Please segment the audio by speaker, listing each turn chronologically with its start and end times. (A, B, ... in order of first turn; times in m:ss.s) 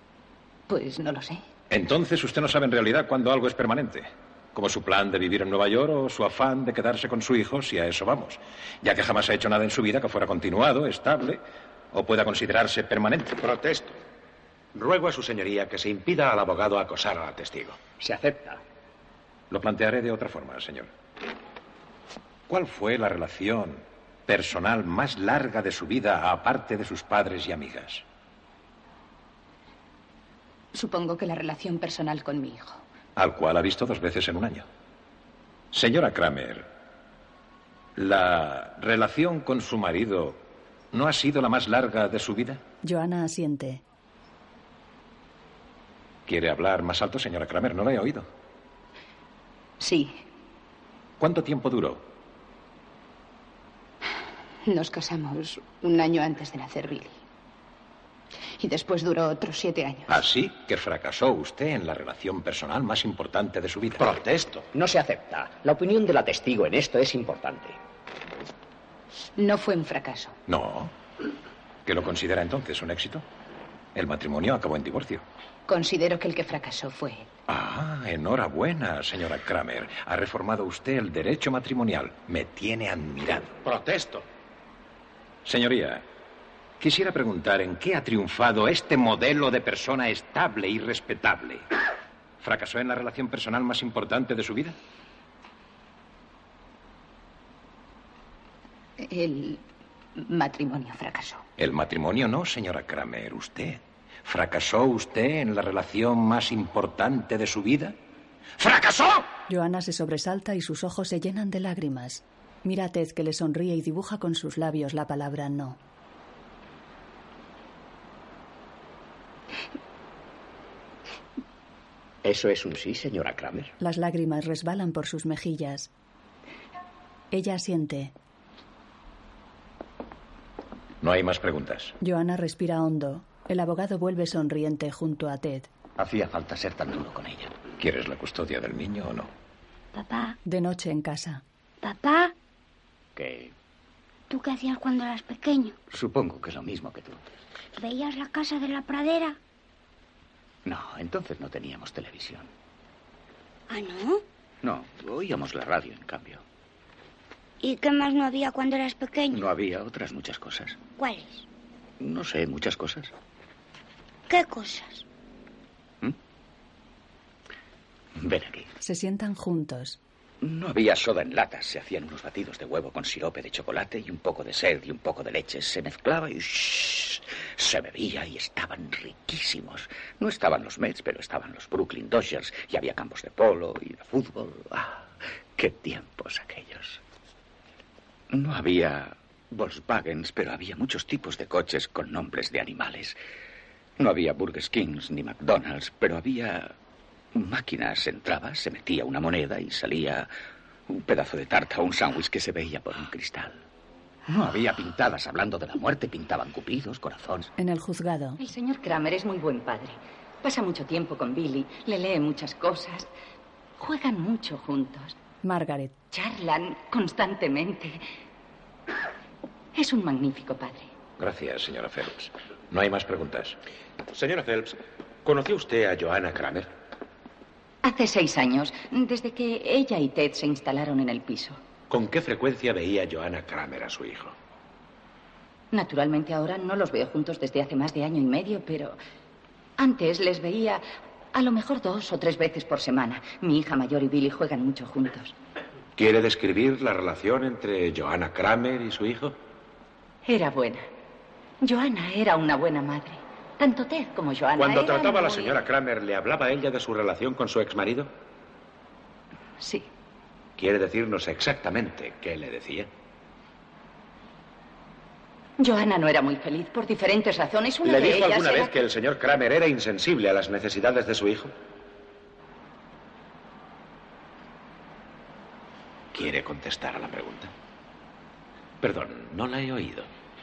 0:00.7-0:01.4 A
0:01.7-0:13.4 B
0:13.4-0:14.0 C
0:14.7-0:17.8 C
0:18.0-0:18.6 D
0:19.5-0:20.9 B
0:22.5-0:28.0 B
0:30.7-0:32.8 A
0:33.2-0:34.7 B
0:35.7-0:36.7 B
0:38.0-0:42.6 B
0:42.8-0:43.8 E
0:46.3-0:48.3 B
0:49.8-0:50.2 A
0:51.2-0:52.1 B
0:54.6-0:57.2 A
0:58.6-1:00.1 A
1:00.1-1:04.0 B
1:04.0-1:04.7 C
1:04.7-1:07.8 D
1:09.4-1:10.4 A
1:10.5-1:10.9 B
1:11.9-1:13.2 B
1:14.0-1:15.2 B
1:15.7-1:17.3 A
1:17.5-1:23.6 B
1:23.6-1:24.2 C
1:25.4-1:26.0 B
1:26.8-1:31.7 B
1:32.4-1:34.8 B
1:39.0-1:39.6 A
1:40.2-1:41.4 A
1:41.6-1:48.0 B
1:48.6-1:49.3 B
1:49.5-1:55.8 E
2:02.2-2:03.7 D
2:03.8-2:05.9 E
2:07.3-2:08.1 E
2:11.0-2:12.0 B
2:12.0-2:15.7 E
2:16.0-2:17.5 F
2:17.8-2:19.3 B
2:20.0-2:20.4 G
2:20.4-2:21.4 E
2:21.8-2:22.3 G
2:23.2-2:23.5 F
2:24.3-2:25.8 G
2:25.9-2:27.2 F
2:27.8-2:29.4 G
2:30.6-2:32.5 F
2:33.7-2:34.2 G
2:34.6-2:36.4 F
2:37.6-2:39.4 G
2:39.3-2:40.8 F
2:41.0-2:41.4 G
2:42.0-2:43.1 F
2:44.3-2:45.0 G
2:48.2-2:48.7 F
2:48.8-2:50.0 E
2:50.4-3:07.0 F
3:08.3-3:13.2 F
3:14.0-3:16.7 F
3:17.3-3:20.3 F
3:20.9-3:23.6 F
3:24.3-3:27.5 F
3:27.6-3:28.4 E
3:28.4-3:33.1 H
3:33.8-3:35.2 H
3:35.4-3:36.0 E
3:36.1-3:38.0 H
3:39.8-3:40.9 H
3:41.2-3:43.6 B
3:44.1-3:46.7 C
3:47.8-3:51.6 H
3:51.9-3:54.4 C
3:55.7-3:59.0 H
3:59.8-4:05.3 H
4:06.0-4:09.4 C
4:10.2-4:10.9 H
4:11.6-4:15.6 H
4:14.6-4:18.1 C
4:19.6-4:19.9 H
4:20.6-4:22.9 C
4:25.6-4:28.7 H
4:27.8-4:31.5 C
4:36.1-4:37.5 C
4:38.8-4:40.1 C